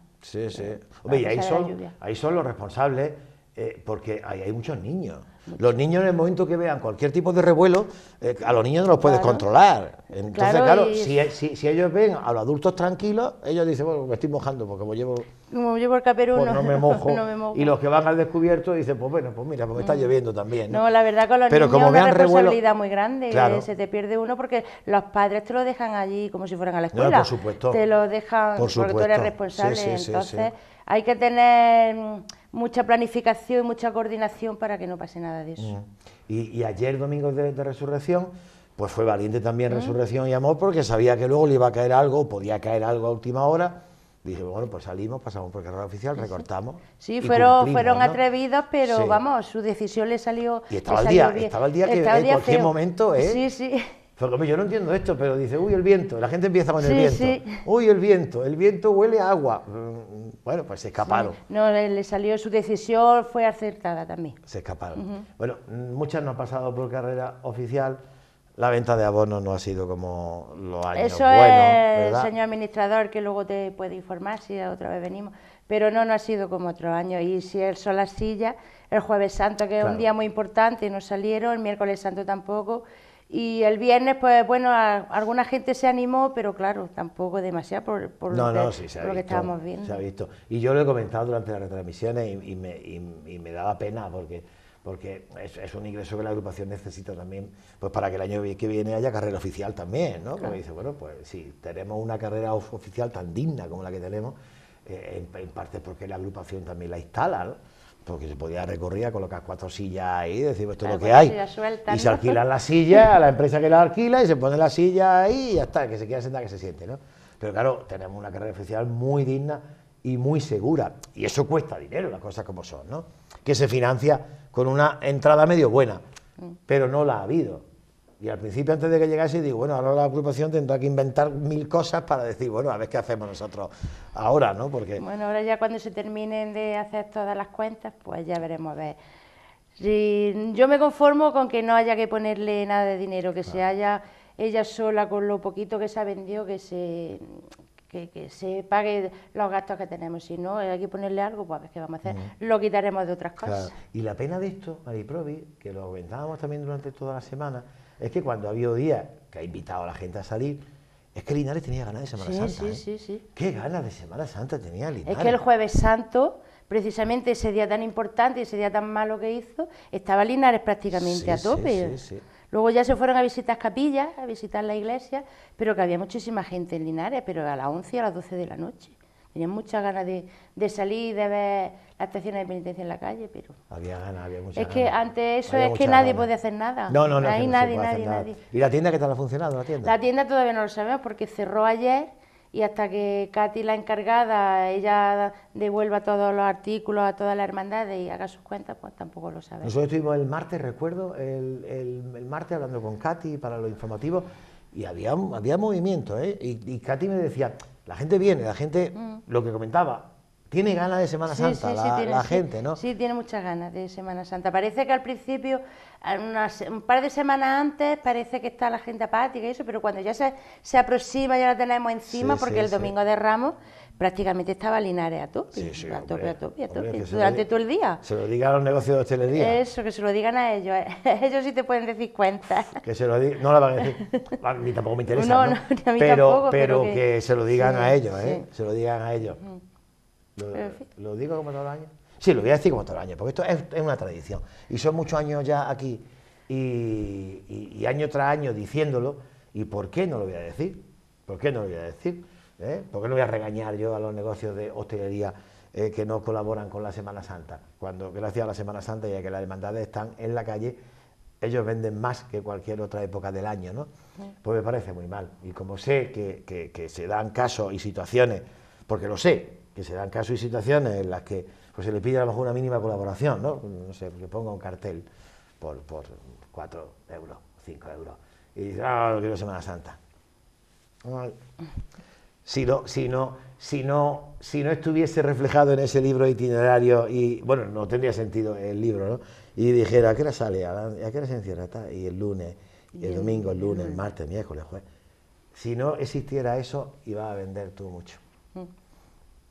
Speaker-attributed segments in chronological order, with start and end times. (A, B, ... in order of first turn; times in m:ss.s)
0:00.2-0:15.3 A
0:00.5-0:01.9 B
0:09.0-0:09.4 B
0:10.3-0:11.2 B
0:15.5-0:17.7 B
0:16.4-0:20.8 A
0:19.8-0:20.1 B
0:20.7-0:35.7 B
0:21.5-0:22.6 A
0:23.3-0:23.7 A
0:26.9-0:27.8 A
0:28.6-0:30.5 A
0:35.6-0:48.2 A
0:39.7-0:40.0 B
0:47.0-0:53.9 B
0:48.8-0:49.2 A
0:50.7-0:53.4 A
0:54.2-1:01.4 A
0:56.8-0:57.6 B
1:01.0-1:04.4 B
1:04.4-1:08.0 A
1:05.0-1:05.3 B
1:08.6-1:12.3 A
1:10.9-1:30.0 B
1:19.8-1:20.0 A
1:28.3-1:51.4 A
1:50.8-1:52.4 B
1:51.9-2:06.0 A
2:06.7-2:07.6 A
2:08.2-2:15.0 A
2:15.0-2:19.0 B
2:19.8-2:33.8 B
2:32.1-2:32.3 A
2:33.4-2:40.6 A
2:41.2-2:42.8 A
2:42.2-2:43.2 B
2:43.4-2:45.4 A
2:45.0-2:52.0 B
2:50.9-2:52.2 A
2:52.5-3:03.6 B
3:03.7-3:04.9 A
3:04.6-3:08.4 B
3:05.5-3:06.3 A
3:06.9-3:09.9 A
3:09.8-3:19.7 B
3:19.6-3:32.8 A
3:29.0-3:29.2 B
3:31.3-3:48.0 B
3:42.1-3:42.9 A
3:45.5-3:47.4 A
3:48.0-3:49.6 A
3:49.3-3:52.8 B
3:52.8-3:59.4 A
3:53.8-3:54.4 B
3:55.1-3:58.5 B
4:00.4-4:20.8 A
4:00.6-4:00.8 B
4:21.4-4:23.9 A
4:24.4-4:35.0 A
4:35.6-4:40.0 A
4:41.0-4:41.4 A
4:42.4-4:54.8 A
4:52.9-4:54.0 B
4:55.5-4:58.2 A